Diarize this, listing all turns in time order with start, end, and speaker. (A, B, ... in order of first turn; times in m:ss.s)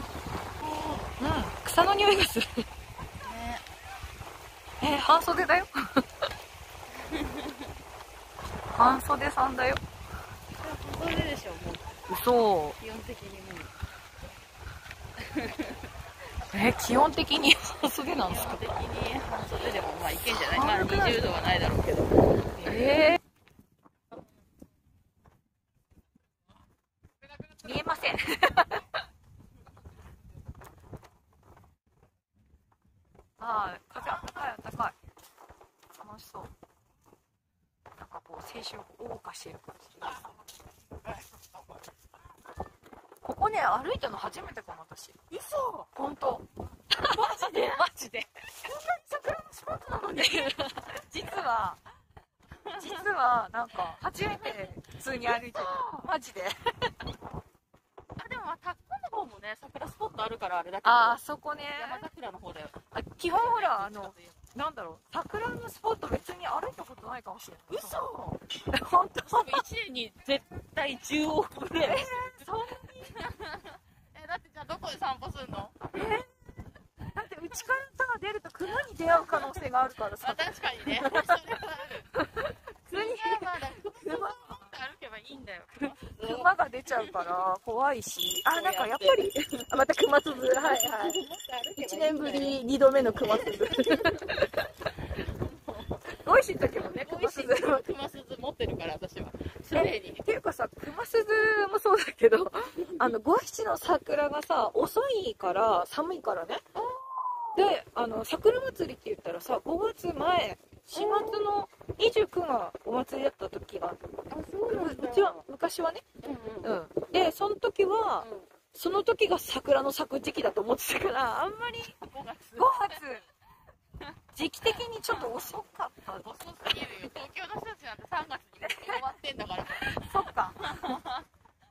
0:00.6-0:01.1 A
0:01.2-0:02.7 B
0:03.2-0:03.6 A
0:04.8-0:06.0 B
0:07.0-0:07.7 A
0:08.8-0:09.8 B
0:10.6-0:12.0 A
0:12.1-0:12.8 B
0:12.8-0:13.8 A
0:15.2-0:15.9 A
0:16.5-0:18.7 B
0:18.2-0:23.1 A
0:20.4-0:21.2 B
0:22.6-0:23.2 B
0:27.6-0:28.9 B
0:33.4-0:35.0 B
0:36.0-0:36.5 B
0:38.0-0:40.1 B
0:43.2-0:45.2 B
0:45.3-0:45.9 A
0:45.9-0:51.8 B
0:52.6-0:53.1 A
0:52.8-0:56.9 B
0:54.2-0:54.7 A
0:55.3-0:55.7 A
0:58.2-1:01.2 A
1:00.8-1:02.0 B
1:01.7-1:02.8 A
1:02.9-1:08.0 B
1:03.3-1:04.4 A
1:07.7-1:08.4 A
1:08.7-1:09.6 B
1:09.3-1:16.2 A
1:11.8-1:13.1 B
1:16.0-1:16.3 B
1:17.0-1:21.4 B
1:19.2-1:19.5 A
1:20.2-1:22.1 A
1:22.1-1:24.6 B
1:22.9-1:27.3 A
1:26.0-1:31.2 B
1:28.5-1:29.6 A
1:30.4-1:32.6 A
1:31.8-1:34.7 B
1:33.2-1:34.4 A
1:35.1-1:36.0 A
1:36.2-1:37.8 B
1:36.7-1:40.3 A
1:39.7-1:46.6 B
1:42.8-1:43.1 A
1:46.8-1:47.6 A
1:47.6-1:54.0 B
1:50.9-1:51.5 A
1:54.3-1:55.4 A
1:54.7-1:56.0 B
1:56.2-1:56.8 A
1:56.6-2:02.0 B
1:58.2-1:58.5 A
2:01.9-2:03.1 A
2:02.6-2:03.2 B
2:04.3-2:06.3 B
2:05.1-2:05.5 A
2:06.2-2:11.3 A
2:08.7-2:09.0 B
2:09.8-2:11.0 B